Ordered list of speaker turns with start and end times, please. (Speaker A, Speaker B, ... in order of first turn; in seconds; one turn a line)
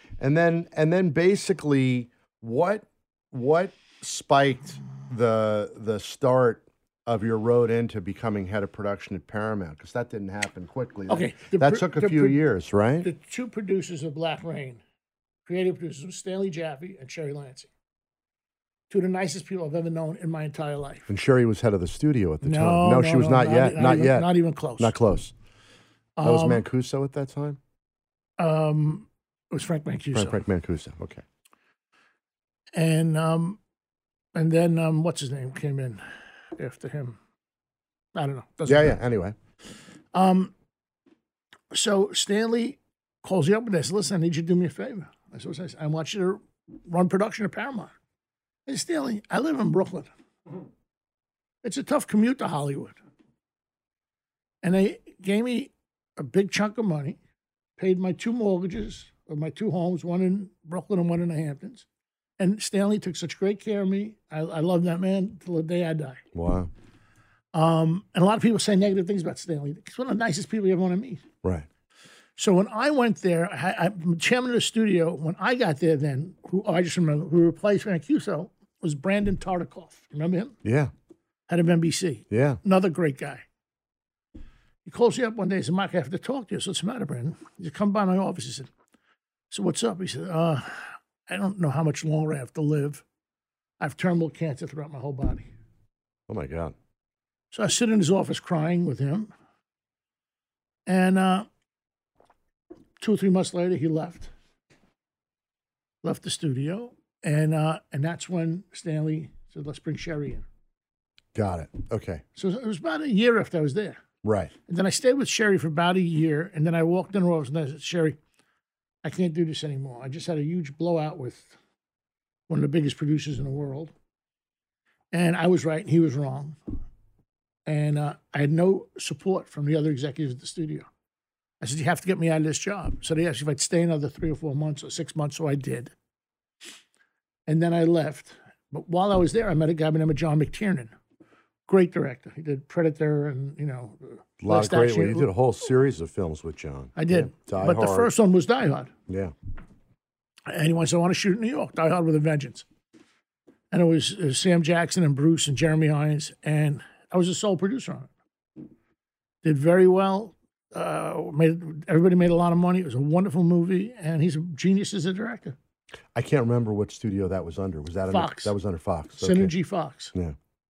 Speaker A: 0.2-13.1
Speaker B: 11.1-12.4
Speaker B: 13.0-14.8
Speaker B: 15.4-17.7
Speaker B: 18.9-21.1
Speaker A: 21.1-25.3
Speaker B: 22.4-24.9
Speaker B: 26.2-26.6
Speaker A: 26.2-27.6
Speaker B: 28.4-30.4
Speaker A: 30.1-31.2
Speaker B: 32.7-33.6
Speaker B: 34.3-36.0
Speaker B: 36.5-37.2
Speaker B: 38.1-39.0
Speaker A: 38.6-39.4
Speaker B: 40.1-40.5
Speaker B: 41.7-47.9
Speaker B: 48.6-50.1
Speaker B: 51.6-53.0
Speaker B: 54.6-57.2
Speaker B: 57.8-61.9
Speaker B: 62.4-66.2
Speaker A: 66.3-66.7
Speaker B: 67.5-71.2
Speaker B: 72.4-80.5
Speaker A: 80.6-80.9
Speaker B: 81.5-83.4
Speaker A: 82.3-82.6
Speaker B: 84.8-88.7
Speaker B: 89.5-93.0
Speaker B: 93.8-95.5
Speaker A: 96.3-96.7
Speaker B: 97.5-99.3
Speaker B: 100.8-101.5
Speaker B: 103.0-104.3
Speaker B: 106.0-110.4
Speaker A: 111.3-112.2
Speaker B: 112.3-114.0
Speaker A: 114.2-114.5
Speaker B: 114.7-118.2
Speaker B: 119.0-121.5
Speaker B: 122.5-123.9
Speaker B: 125.1-126.6
Speaker B: 127.7-130.9
Speaker B: 131.6-135.9
Speaker B: 137.5-140.9
Speaker B: 141.7-145.3
Speaker A: 144.4-148.1
Speaker B: 146.9-148.9
Speaker A: 149.1-149.3
Speaker B: 150.5-152.7
Speaker B: 153.7-158.1
Speaker B: 159.4-165.6
Speaker A: 166.1-169.5
Speaker B: 168.1-168.5
Speaker B: 169.2-170.1